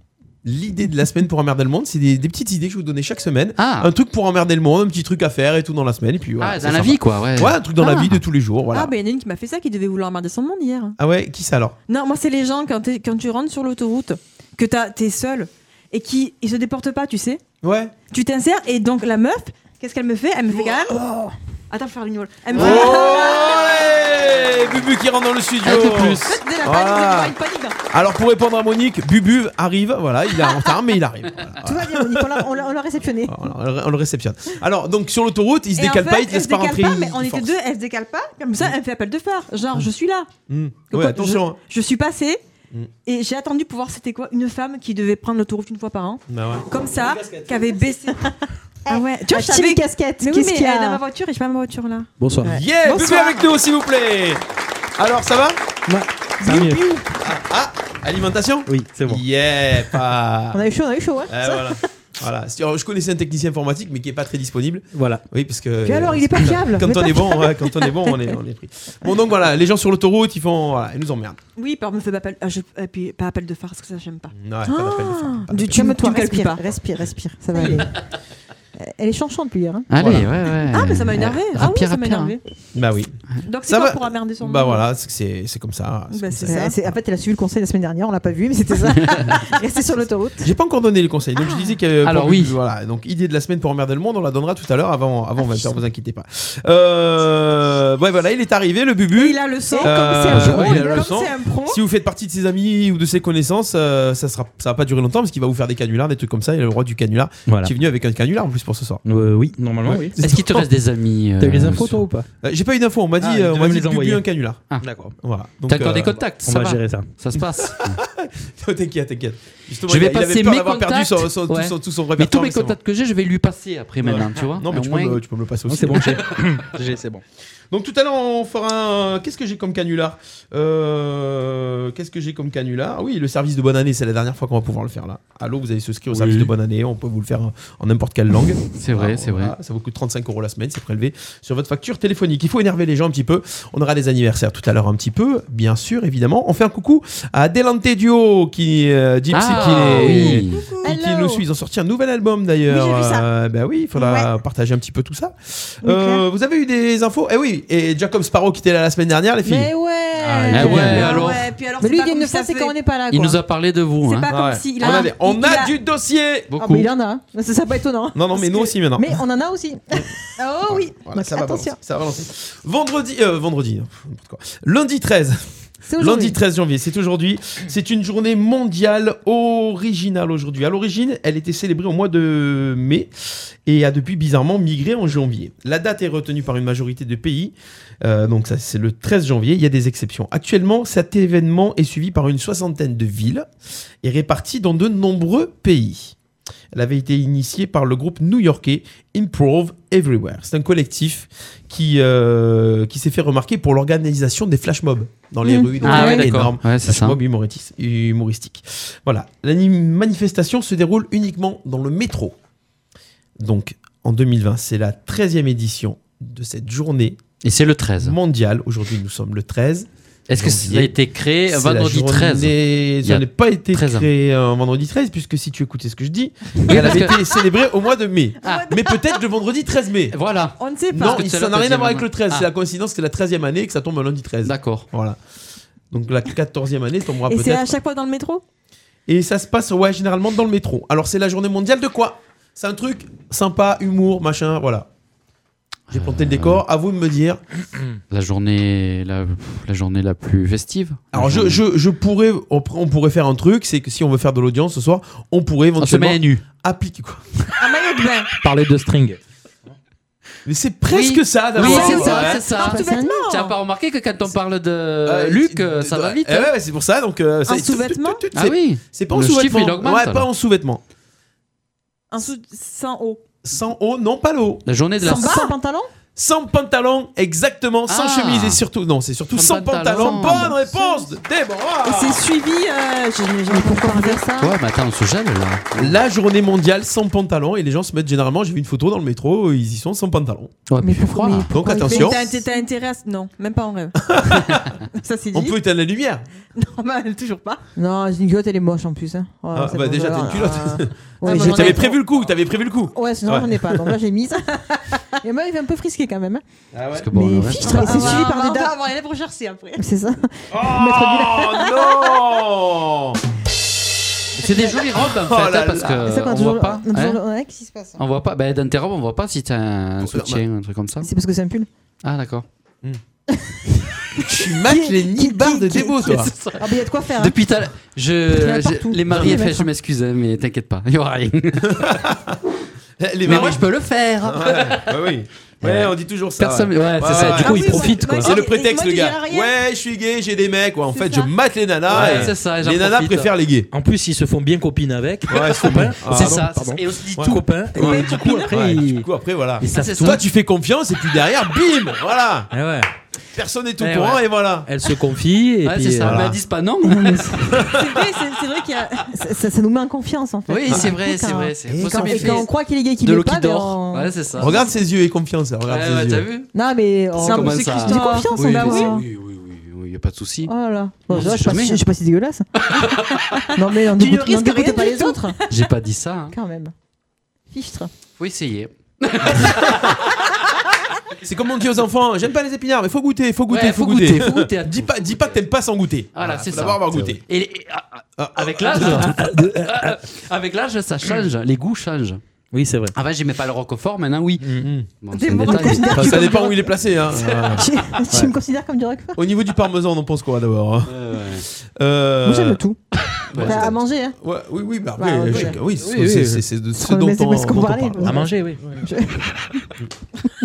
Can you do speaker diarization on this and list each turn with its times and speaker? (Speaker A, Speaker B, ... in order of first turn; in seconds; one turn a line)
Speaker A: 0.4-8.9
Speaker B: 3.6-3.9
Speaker B: 6.4-8.2
Speaker C: 8.7-11.0
Speaker A: 11.0-11.8
Speaker C: 11.9-17.4
Speaker A: 17.6-17.9
Speaker C: 18.1-20.9
Speaker D: 20.9-21.3
Speaker C: 21.7-23.9
Speaker A: 22.5-27.4
Speaker D: 22.6-23.5
Speaker B: 25.6-26.3
Speaker C: 25.8-27.8
Speaker A: 27.9-32.5
Speaker D: 31.6-33.5
Speaker A: 33.3-37.5
Speaker C: 35.8-40.3
Speaker A: 40.5-41.6
Speaker C: 40.9-42.4
Speaker C: 43.0-48.3
Speaker A: 46.3-47.8
Speaker D: 48.9-51.0
Speaker C: 48.9-53.4
Speaker E: 52.2-52.6
Speaker A: 52.4-54.4
Speaker A: 55.0-55.6
Speaker E: 55.9-56.8
Speaker D: 56.4-57.0
Speaker A: 56.5-60.6
Speaker E: 58.7-59.2
Speaker D: 60.5-61.8
Speaker A: 61.3-71.4
Speaker E: 64.9-65.2
Speaker D: 65.8-68.2
Speaker C: 71.6-76.6
Speaker A: 74.3-75.8
Speaker D: 75.5-77.9
Speaker C: 77.5-77.9
Speaker D: 78.8-79.9
Speaker B: 79.9-82.4
Speaker A: 80.0-80.3
Speaker C: 80.7-82.4
Speaker A: 82.7-86.7
Speaker C: 83.5-84.8
Speaker C: 86.1-86.7
Speaker D: 86.4-90.5
Speaker B: 88.9-89.2
Speaker A: 90.4-109.0
Speaker C: 91.4-91.7
Speaker B: 92.0-92.6
Speaker D: 95.4-95.8
Speaker C: 99.2-101.8
Speaker D: 99.7-101.2
Speaker E: 107.5-107.7
Speaker E: 109.0-110.2
Speaker A: 109.8-110.7
Speaker B: 110.2-112.0
Speaker E: 111.4-112.3
Speaker A: 112.4-116.2
Speaker E: 113.2-114.2
Speaker B: 115.7-118.0
Speaker E: 116.5-117.1
Speaker A: 117.7-122.8
Speaker B: 119.9-125.2
Speaker A: 124.0-126.3
Speaker E: 125.7-127.2
Speaker A: 127.7-159.7
Speaker B: 136.1-136.4
Speaker E: 136.2-136.5
Speaker B: 138.8-139.6
Speaker B: 149.3-150.6
Speaker C: 149.6-150.9
Speaker D: 150.0-151.4
Speaker D: 152.7-153.2
Speaker C: 152.8-153.2
Speaker D: 153.9-154.3
Speaker D: 155.8-156.2
Speaker D: 159.4-161.3
Speaker E: 160.3-161.0
Speaker B: 160.5-161.5
Speaker C: 160.6-162.8
Speaker D: 161.8-163.4
Speaker B: 163.1-164.3
Speaker C: 164.1-165.7
Speaker A: 164.3-166.5
Speaker B: 166.5-166.9
Speaker D: 166.6-170.2
Speaker A: 168.2-169.2
Speaker C: 170.4-170.9
Speaker A: 170.7-175.4
Speaker D: 171.0-171.8
Speaker D: 175.9-176.4
Speaker A: 176.0-183.1
Speaker A: 183.7-193.5
Speaker A: 194.0-196.2
Speaker A: 196.7-212.4
Speaker D: 205.4-206.3
Speaker B: 205.8-207.2
Speaker A: 213.4-217.2
Speaker B: 217.4-218.2
Speaker A: 218.0-220.9
Speaker B: 220.3-224.1
Speaker A: 221.5-230.2
Speaker B: 226.7-227.2
Speaker C: 228.4-229.1
Speaker B: 230.1-232.5
Speaker C: 230.6-231.3
Speaker A: 230.9-235.2
Speaker B: 234.4-234.9
Speaker A: 235.9-237.7
Speaker C: 237.3-238.4
Speaker A: 239.1-244.9
Speaker B: 245.9-246.6
Speaker A: 245.9-247.4
Speaker B: 248.1-251.6
Speaker A: 251.1-257.2
Speaker B: 255.8-256.4
Speaker C: 257.6-258.3
Speaker E: 258.4-259.2
Speaker A: 260.5-262.4
Speaker B: 260.9-266.5
Speaker C: 261.6-263.5
Speaker D: 261.6-263.3
Speaker A: 265.1-270.8
Speaker C: 267.4-268.2
Speaker B: 268.3-270.3
Speaker C: 272.1-273.2
Speaker A: 273.4-274.6
Speaker B: 274.7-275.4
Speaker D: 275.0-275.9
Speaker C: 275.1-275.5
Speaker A: 276.1-282.2
Speaker B: 277.9-278.6
Speaker B: 279.3-280.6
Speaker D: 280.0-281.1
Speaker C: 281.8-284.2
Speaker D: 283.5-284.6
Speaker B: 284.4-286.0
Speaker A: 285.8-290.6
Speaker B: 290.7-291.5
Speaker D: 290.8-292.2
Speaker A: 291.5-292.4
Speaker C: 291.8-294.0
Speaker A: 294.1-294.8
Speaker C: 294.9-295.6
Speaker A: 295.3-296.2
Speaker C: 296.6-297.6
Speaker D: 297.8-302.0
Speaker A: 299.5-303.9
Speaker C: 301.2-301.9
Speaker D: 302.9-306.4
Speaker A: 306.7-307.1
Speaker B: 306.9-308.3
Speaker D: 307.1-308.8
Speaker C: 307.6-309.8
Speaker D: 309.8-311.9
Speaker A: 310.5-313.2
Speaker B: 314.4-317.2
Speaker A: 314.6-316.1
Speaker D: 316.0-318.0
Speaker B: 318.0-321.1
Speaker A: 320.0-320.4
Speaker D: 321.0-321.7
Speaker B: 322.0-322.4
Speaker D: 323.3-323.6
Speaker A: 324.1-326.3
Speaker D: 324.2-327.4
Speaker B: 326.1-326.6
Speaker B: 327.1-332.0
Speaker D: 328.3-329.7
Speaker A: 329.1-329.4
Speaker A: 331.7-332.4
Speaker A: 333.0-333.7
Speaker B: 333.2-338.0
Speaker A: 334.2-343.7
Speaker E: 337.1-338.3
Speaker C: 337.2-339.5
Speaker C: 340.9-341.3
Speaker B: 341.9-343.3
Speaker E: 342.0-342.3
Speaker E: 343.7-349.1
Speaker A: 345.3-346.5
Speaker B: 346.0-347.4
Speaker A: 347.1-352.5
Speaker C: 347.8-348.6
Speaker E: 349.6-350.2
Speaker B: 349.7-350.2
Speaker E: 352.5-352.9
Speaker A: 353.4-354.7
Speaker B: 353.8-354.2
Speaker E: 354.7-356.2
Speaker B: 355.6-357.7
Speaker A: 356.0-356.4
Speaker A: 357.6-357.9
Speaker C: 357.7-359.1
Speaker D: 359.1-364.1
Speaker B: 360.5-362.5
Speaker A: 361.7-362.5
Speaker B: 363.0-364.6
Speaker A: 364.4-366.3
Speaker B: 365.7-366.5
Speaker D: 366.5-369.0
Speaker B: 367.1-370.5
Speaker C: 367.2-369.0
Speaker D: 370.5-372.4
Speaker B: 371.1-371.8
Speaker B: 372.6-373.3
Speaker C: 373.3-375.3
Speaker D: 373.6-375.4
Speaker B: 375.5-376.4
Speaker D: 376.3-376.7
Speaker D: 377.5-377.9
Speaker B: 378.2-380.1
Speaker A: 381.2-387.2
Speaker B: 383.5-385.4
Speaker B: 386.1-392.2
Speaker A: 388.2-389.1
Speaker E: 388.8-390.0
Speaker E: 392.5-392.9
Speaker B: 392.9-396.2
Speaker E: 394.4-394.7
Speaker A: 394.6-394.9
Speaker C: 395.1-396.5
Speaker D: 395.5-396.6
Speaker A: 395.9-398.3
Speaker B: 397.2-397.6
Speaker D: 397.6-399.2
Speaker A: 399.2-402.6
Speaker B: 400.9-401.4
Speaker D: 402.2-402.8
Speaker B: 403.3-403.7
Speaker A: 403.3-408.8
Speaker D: 403.4-404.2
Speaker D: 405.0-405.6
Speaker E: 405.8-406.4
Speaker D: 406.8-409.7
Speaker E: 408.0-408.6